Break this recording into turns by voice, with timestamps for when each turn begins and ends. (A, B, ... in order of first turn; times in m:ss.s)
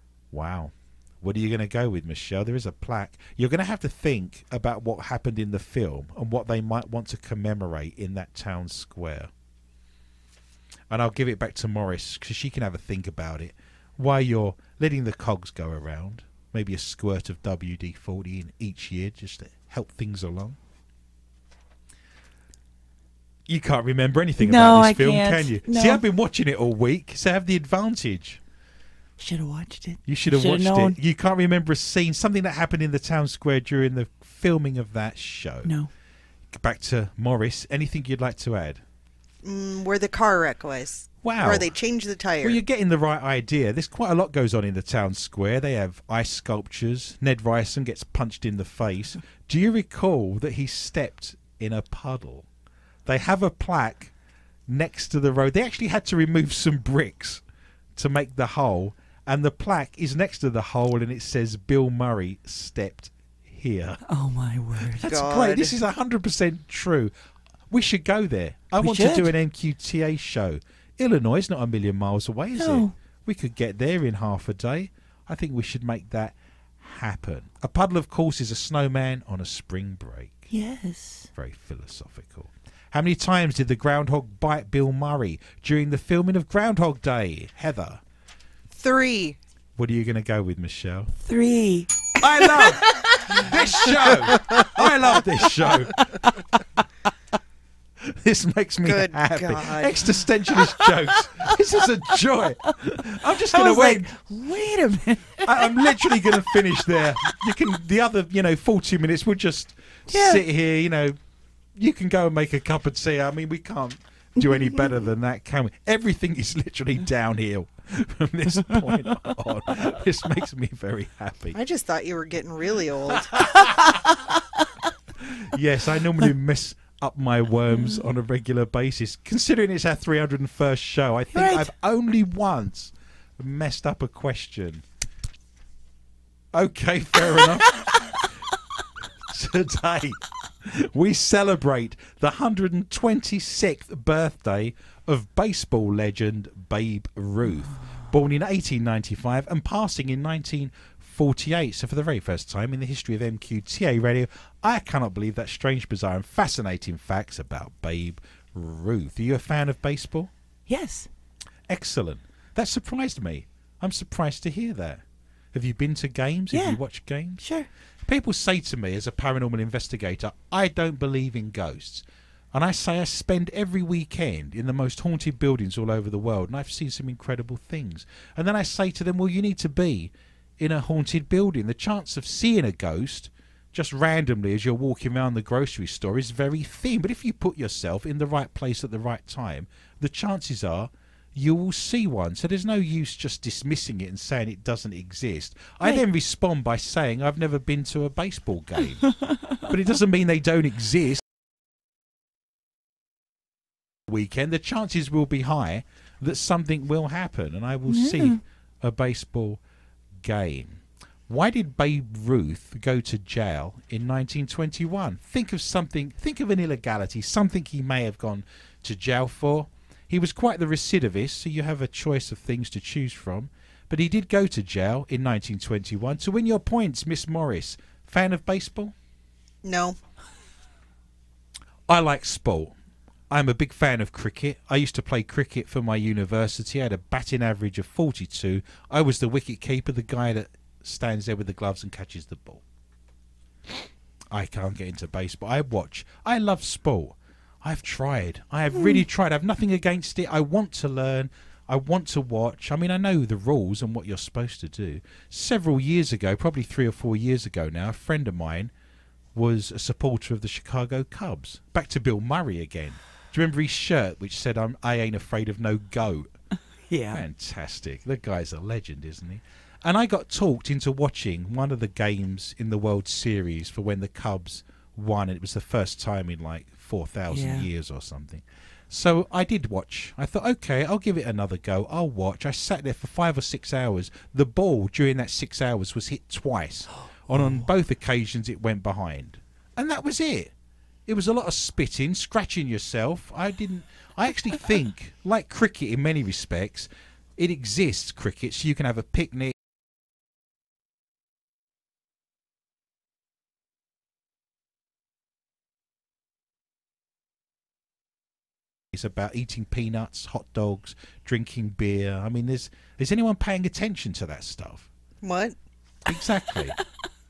0:00.3-0:09.3 A
0:10.9-0:20.6 A
0:23.5-0:28.4 A
0:24.4-0:26.0 B
0:29.2-0:31.0 B
0:30.0-0:35.7 A
0:35.6-0:35.9 B
0:36.5-0:38.8 A
0:39.4-0:42.6 C
0:41.2-0:41.7 A
0:42.4-0:52.4 A
0:53.0-0:54.1 A
0:54.7-0:57.4 A
0:58.0-1:04.0 A
1:04.0-1:05.1 B
1:04.9-1:07.1 A
1:05.0-1:05.8 C
1:07.7-1:20.5 A
1:08.8-1:09.3 B
1:12.6-1:12.9 B
1:20.5-1:21.3 B
1:21.3-1:28.0 A
1:28.7-1:29.4 C
1:29.8-1:31.1 A
1:31.2-1:33.9 B
1:32.2-1:36.0 A
1:34.3-1:34.6 C
1:38.0-1:44.1 A
1:38.8-1:40.0 C
1:43.2-1:46.4 B
1:45.4-1:51.2 A
1:50.1-1:50.4 B
1:51.8-2:01.6 A
2:01.5-2:03.6 C
2:03.3-2:04.0 A
2:05.2-2:14.8 A
2:07.7-2:08.0 B
2:11.3-2:11.7 B
2:16.5-2:18.2 A
2:17.4-2:18.1 B
2:19.2-2:40.3 A
2:40.7-2:41.1 B
2:41.7-2:47.4 A
2:46.5-2:46.8 B
2:47.4-2:47.7 B
2:48.0-3:21.2 A
3:19.2-3:19.6 B
3:24.1-3:29.6 A
3:27.9-3:28.4 B
3:30.2-3:48.9 A
3:49.6-3:50.0 C
3:51.9-3:52.7 A
3:53.3-4:02.6 A
4:04.3-4:18.7 A
4:08.7-4:09.0 B
4:19.3-4:26.3 A
4:26.9-4:27.2 B
4:27.1-4:50.5 A
4:37.3-4:37.7 B
4:47.3-4:47.7 B
4:51.1-4:59.5 A
5:08.9-5:14.9 A
5:15.2-5:15.6 C
5:16.0-5:16.8 A